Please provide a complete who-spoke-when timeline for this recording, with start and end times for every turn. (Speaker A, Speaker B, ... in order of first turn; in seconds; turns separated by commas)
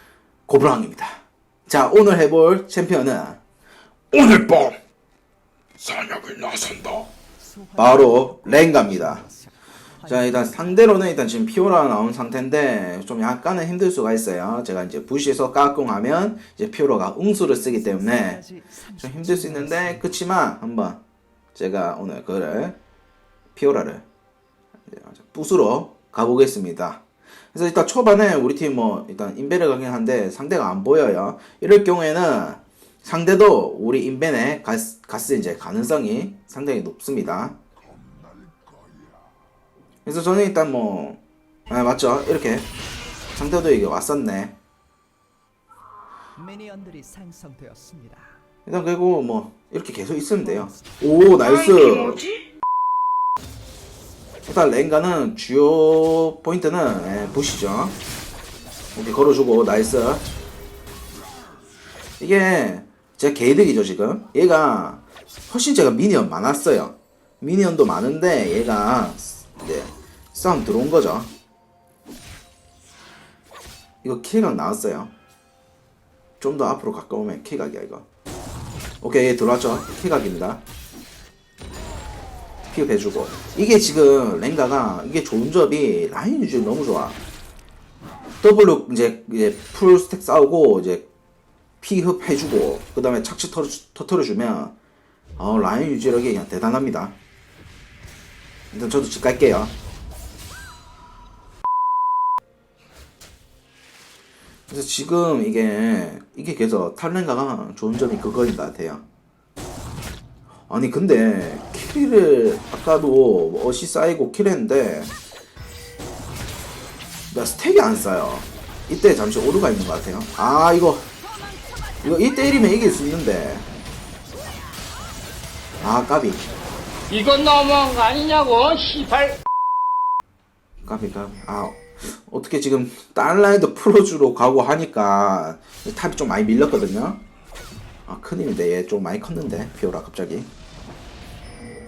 Speaker A: 0.5-3.4, Speaker A: 4.1-4.8, Speaker A: 5.8-7.1, Speaker B: 7.5-9.5, Speaker A: 7.8-9.2, Speaker A: 10.1-18.4, Speaker B: 18.0-20.0, Speaker A: 19.0-21.0, Speaker A: 21.6-22.8, Speaker A: 23.6-24.0, Speaker A: 24.9-27.0, Speaker A: 27.5-37.6, Speaker A: 40.1-42.7, Speaker A: 43.4-44.6, Speaker B: 46.4-48.3, Speaker A: 48.7-52.3, Speaker A: 54.5-58.0, Speaker A: 59.0-60.3, Speaker A: 62.2-71.3, Speaker A: 74.0-75.1, Speaker A: 76.4-78.0, Speaker A: 79.0-80.6, Speaker A: 82.7-87.2, Speaker A: 88.4-91.1, Speaker A: 91.8-94.7, Speaker A: 95.4-97.2, Speaker A: 98.7-99.7, Speaker A: 104.7-109.0, Speaker A: 110.7-115.1, Speaker A: 117.3-121.1, Speaker A: 122.0-123.7, Speaker A: 125.8-126.5, Speaker C: 127.1-129.4, Speaker A: 130.8-137.2, Speaker A: 138.1-140.5